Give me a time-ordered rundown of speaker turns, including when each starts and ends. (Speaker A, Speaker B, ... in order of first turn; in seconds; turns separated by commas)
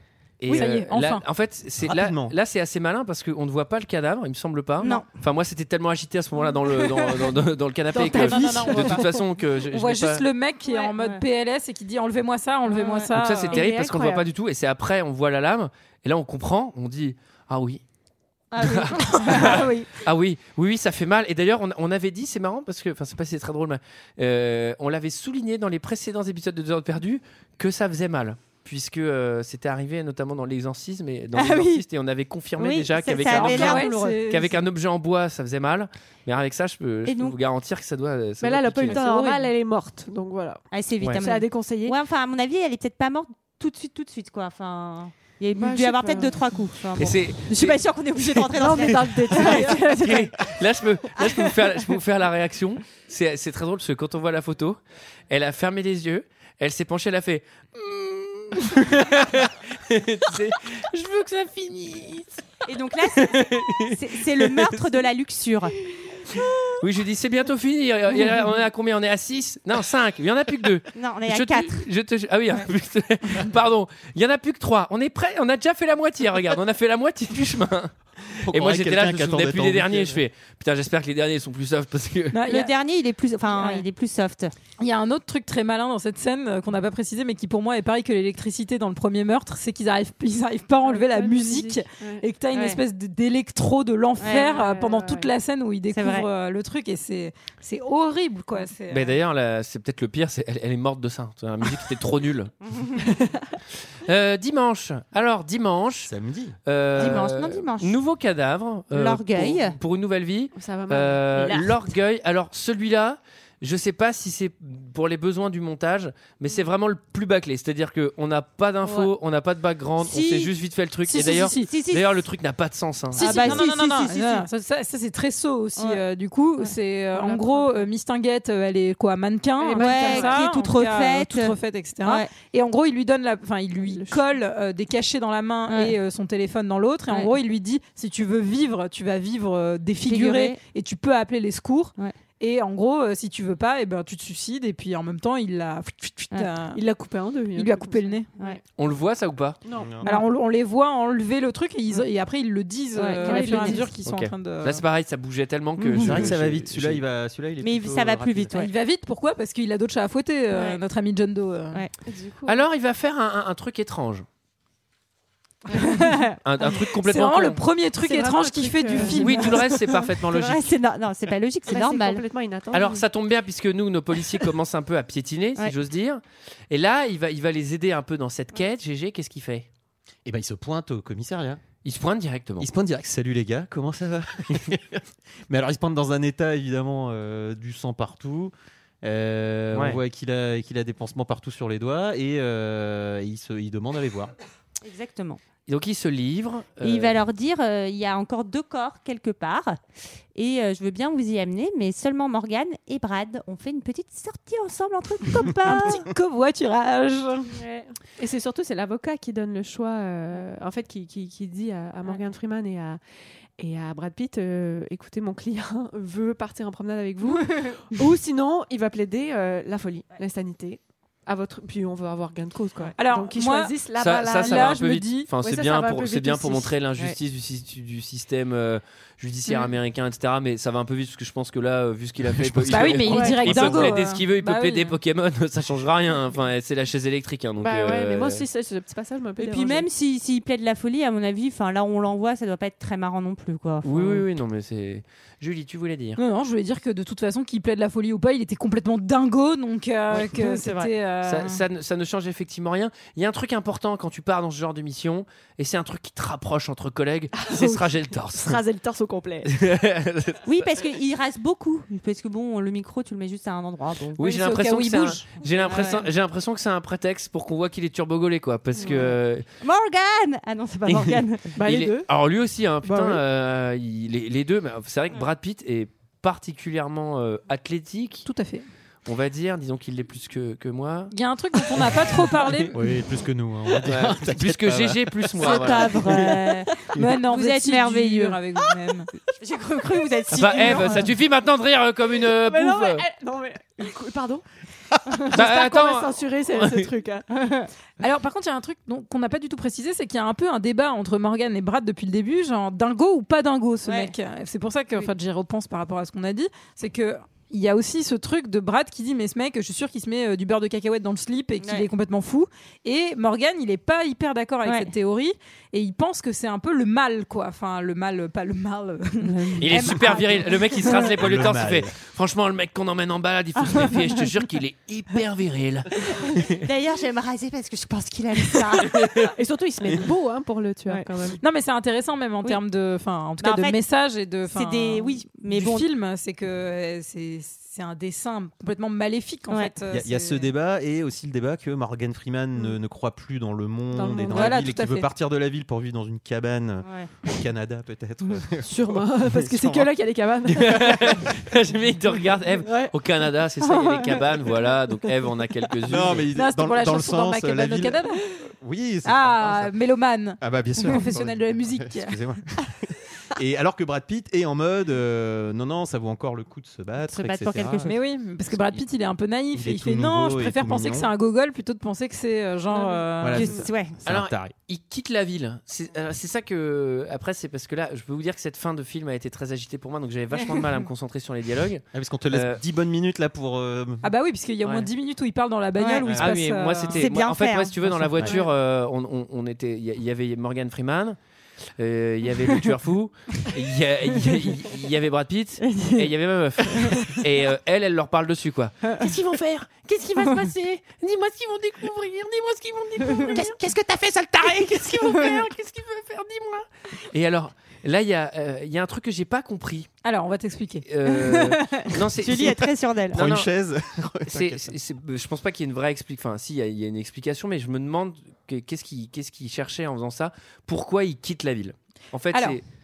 Speaker A: 0.4-10.2, Speaker B: 0.5-1.2, Speaker C: 1.8-2.3, Speaker D: 4.8-5.0, Speaker E: 7.9-9.0, Speaker B: 8.2-9.0, Speaker B: 9.7-13.6, Speaker D: 10.7-11.2, Speaker D: 12.7-13.1, Speaker A: 13.1-17.8, Speaker E: 13.5-14.3, Speaker D: 18.5-19.9, Speaker A: 18.6-39.0, Speaker B: 19.3-19.6, Speaker D: 31.3-31.8, Speaker D: 32.6-34.2, Speaker B: 33.2-34.6, Speaker D: 37.0-37.4, Speaker E: 38.4-40.6, Speaker D: 38.9-39.2, Speaker B: 39.0-39.3, Speaker D: 40.7-49.8, Speaker E: 41.1-41.9, Speaker E: 45.5-46.5, Speaker A: 47.0-47.8, Speaker E: 48.5-50.4, Speaker A: 49.1-62.3, Speaker D: 62.6-65.7, Speaker A: 63.1-64.7, Speaker A: 66.8-77.9, Speaker D: 70.9-71.8, Speaker C: 78.4-80.2, Speaker A: 78.5-82.4, Speaker B: 82.3-82.7, Speaker D: 82.5-84.5, Speaker B: 83.5-83.8, Speaker B: 84.8-99.2, Speaker E: 90.8-92.2, Speaker D: 92.5-92.8, Speaker D: 94.2-94.5, Speaker E: 94.4-95.3, Speaker D: 95.9-96.3, Speaker A: 98.9-102.5, Speaker A: 104.0-106.1, Speaker C: 106.0-107.2, Speaker A: 106.7-123.6, Speaker D: 107.0-108.0, Speaker D: 108.9-109.8, Speaker E: 110.5-111.6, Speaker D: 120.0-120.5, Speaker B: 121.1-121.7, Speaker D: 121.1-122.1, Speaker D: 123.1-124.5, Speaker B: 123.2-146.8, Speaker D: 125.8-126.0, Speaker D: 126.6-127.6, Speaker E: 129.6-130.5, Speaker D: 129.8-132.3, Speaker E: 133.8-134.2, Speaker D: 135.7-135.9, Speaker D: 140.1-140.6, Speaker E: 146.7-148.6, Speaker B: 147.5-148.3, Speaker A: 148.8-149.6, Speaker E: 149.6-149.9, Speaker C: 149.8-150.0, Speaker B: 150.0-154.8, Speaker D: 152.9-153.9, Speaker E: 153.2-153.8, Speaker A: 154.0-157.0, Speaker D: 155.8-156.3, Speaker C: 156.0-158.5, Speaker D: 157.6-158.7, Speaker B: 158.5-161.8, Speaker D: 160.5-160.8, Speaker E: 162.0-162.6, Speaker A: 162.4-164.2, Speaker E: 165.7-166.0, Speaker B: 165.8-166.1, Speaker D: 165.9-166.2, Speaker A: 166.4-167.6, Speaker B: 167.0-169.6, Speaker E: 168.0-169.6, Speaker A: 169.2-170.7, Speaker D: 170.2-172.2, Speaker E: 171.7-173.1, Speaker A: 172.7-179.7, Speaker C: 180.2-181.6, Speaker A: 181.8-182.7, Speaker C: 182.6-194.3, Speaker A: 189.7-190.0, Speaker D: 194.8-195.4, Speaker A: 195.7-197.1, Speaker D: 196.8-199.8, Speaker D: 200.3-206.0, Speaker B: 205.6-207.5, Speaker E: 207.5-213.0, Speaker E: 213.6-226.8, Speaker B: 223.0-223.7, Speaker A: 224.0-238.4, Speaker B: 224.3-225.3, Speaker C: 232.4-232.9, Speaker B: 232.7-235.0, Speaker E: 233.1-233.9, Speaker E: 237.6-239.8, Speaker D: 239.4-244.2, Speaker A: 243.8-246.2, Speaker B: 246.2-251.6, Speaker D: 250.1-250.9, Speaker A: 251.2-258.6, Speaker E: 257.3-259.5, Speaker A: 259.4-260.6, Speaker D: 260.4-264.2, Speaker A: 264.2-269.4, Speaker B: 264.2-265.2, Speaker D: 265.6-266.0, Speaker E: 268.8-269.1, Speaker D: 269.6-271.5, Speaker E: 271.5-272.1, Speaker A: 271.6-278.3, Speaker E: 272.8-273.2, Speaker B: 278.2-278.6, Speaker A: 279.1-281.1, Speaker B: 281.1-282.7, Speaker C: 282.7-286.4, Speaker A: 283.9-286.2, Speaker D: 285.4-288.4, Speaker B: 286.9-289.1, Speaker D: 289.4-291.1, Speaker A: 290.3-293.0, Speaker E: 292.2-294.4, Speaker E: 295.2-297.2, Speaker A: 295.3-296.9, Speaker D: 297.3-297.7, Speaker B: 298.0-320.5, Speaker D: 303.9-304.1, Speaker D: 314.6-314.9, Speaker D: 319.2-320.4, Speaker A: 319.6-326.1, Speaker C: 321.1-321.9, Speaker D: 323.6-324.1, Speaker D: 326.5-329.3, Speaker E: 329.2-331.4, Speaker B: 331.4-340.4, Speaker D: 333.4-333.8, Speaker D: 334.5-335.9, Speaker C: 339.9-349.9, Speaker E: 343.9-344.6, Speaker B: 344.3-345.1, Speaker E: 348.6-351.2, Speaker A: 350.5-356.3, Speaker E: 352.6-352.9, Speaker C: 355.9-359.7, Speaker B: 356.3-358.2, Speaker B: 359.0-362.2, Speaker C: 360.4-367.9, Speaker D: 367.1-368.0, Speaker B: 367.9-373.5, Speaker C: 369.5-371.1, Speaker E: 372.8-373.1, Speaker C: 373.2-374.5, Speaker D: 373.3-374.0, Speaker A: 374.0-382.6, Speaker C: 381.9-384.0, Speaker B: 384.0-387.0, Speaker D: 385.8-386.3, Speaker A: 386.2-391.2, Speaker D: 386.9-388.4, Speaker A: 391.8-409.9, Speaker D: 395.7-396.1, Speaker D: 403.1-403.4, Speaker D: 405.1-405.4, Speaker B: 410.0-410.9, Speaker A: 410.8-413.5, Speaker D: 411.3-413.2, Speaker C: 413.1-414.7, Speaker A: 414.3-422.6, Speaker B: 422.3-422.6